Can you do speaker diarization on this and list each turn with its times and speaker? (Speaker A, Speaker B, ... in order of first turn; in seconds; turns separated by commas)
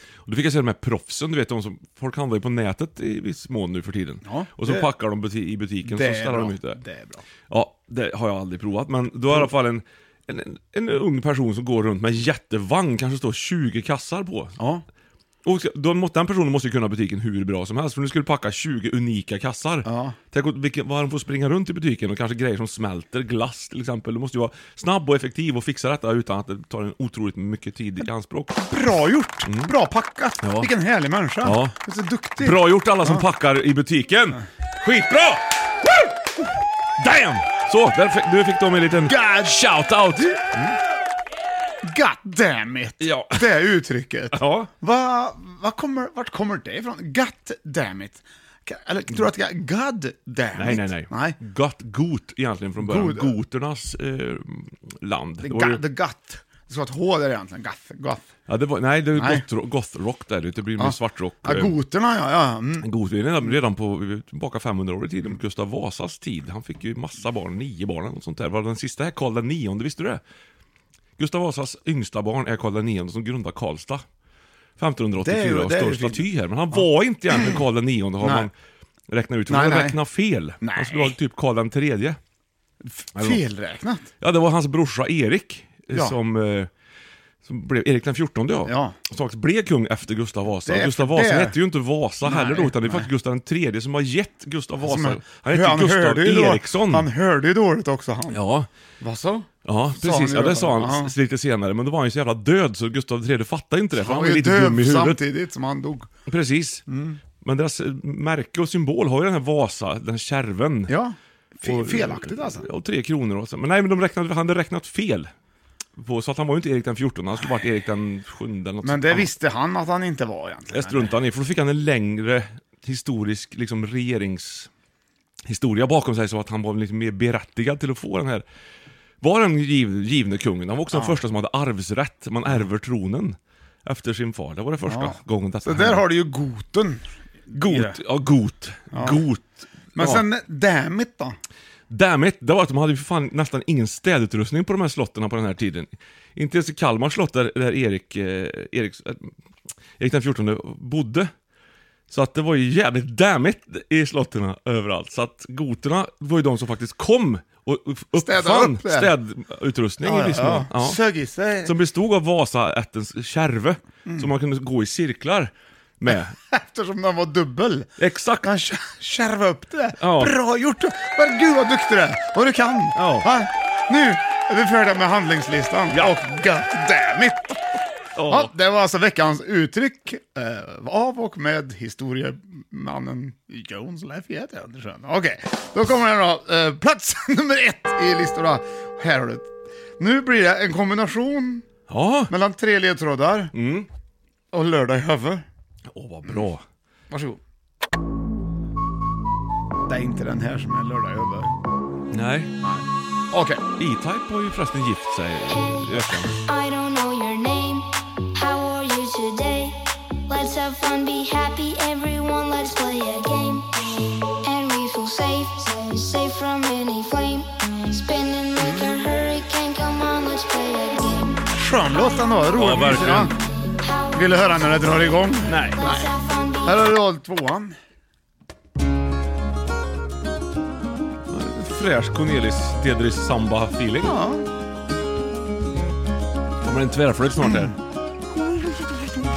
Speaker A: 0.2-6.8, Speaker B: 4.2-4.9, Speaker B: 5.8-7.2, Speaker A: 7.5-14.6, Speaker B: 14.6-14.8, Speaker A: 15.4-28.6, Speaker B: 19.9-20.1, Speaker B: 28.6-33.2, Speaker A: 29.4-29.7, Speaker A: 30.4-30.7, Speaker A: 31.4-31.8, Speaker A: 32.4-36.1, Speaker A: 37.0-40.4, Speaker B: 39.0-39.5, Speaker B: 41.8-51.4, Speaker A: 43.0-43.4, Speaker A: 44.3-44.7, Speaker A: 50.5-55.8, Speaker B: 52.8-53.3, Speaker B: 55.4-58.3, Speaker A: 58.5-61.7, Speaker B: 59.1-59.4, Speaker B: 60.8-62.9, Speaker A: 62.8-70.2, Speaker A: 71.2-74.0, Speaker A: 74.8-78.5, Speaker B: 75.2-77.6, Speaker B: 78.2-78.5, Speaker A: 79.1-82.2, Speaker B: 79.5-80.0, Speaker B: 80.6-81.1, Speaker B: 82.8-84.1, Speaker A: 83.2-83.4, Speaker A: 84.2-86.7, Speaker A: 87.4-97.1, Speaker B: 88.7-88.9, Speaker B: 90.7-91.5, Speaker B: 92.2-93.1, Speaker B: 94.8-98.4, Speaker A: 98.3-98.7, Speaker B: 99.0-101.1, Speaker A: 99.6-105.2, Speaker B: 104.0-106.1, Speaker A: 106.3-106.8, Speaker B: 106.9-107.2, Speaker A: 107.4-110.9, Speaker B: 110.9-112.6, Speaker A: 111.6-115.3, Speaker A: 116.0-119.3, Speaker B: 118.8-121.1, Speaker A: 120.7-124.7, Speaker A: 125.5-128.4, Speaker A: 129.2-136.0, Speaker B: 134.9-138.0, Speaker A: 137.5-140.2, Speaker B: 138.9-139.2, Speaker B: 139.9-141.4, Speaker A: 141.9-149.3, Speaker A: 150.0-151.3, Speaker A: 152.1-161.0, Speaker B: 158.2-159.1, Speaker B: 160.0-161.7, Speaker A: 161.6-166.3, Speaker B: 166.5-167.9, Speaker A: 168.0-168.5, Speaker B: 168.4-177.6, Speaker A: 170.0-170.3, Speaker A: 172.9-173.3, Speaker A: 178.2-178.5, Speaker B: 178.3-191.6, Speaker A: 191.9-192.3, Speaker B: 192.3-193.5, Speaker A: 193.5-193.9, Speaker B: 194.5-195.4, Speaker A: 195.9-196.6, Speaker B: 197.1-197.4, Speaker B: 199.8-201.5, Speaker A: 202.1-202.5, Speaker B: 202.6-203.6, Speaker A: 203.8-206.3, Speaker C: 206.4-221.4, Speaker B: 218.6-219.0, Speaker B: 221.5-223.3, Speaker A: 222.5-223.3, Speaker C: 223.8-225.0, Speaker B: 224.1-226.1, Speaker A: 225.4-225.8, Speaker C: 225.7-226.9, Speaker B: 226.6-227.7, Speaker A: 231.3-234.1, Speaker B: 234.0-234.4, Speaker A: 236.6-237.7, Speaker B: 237.4-237.7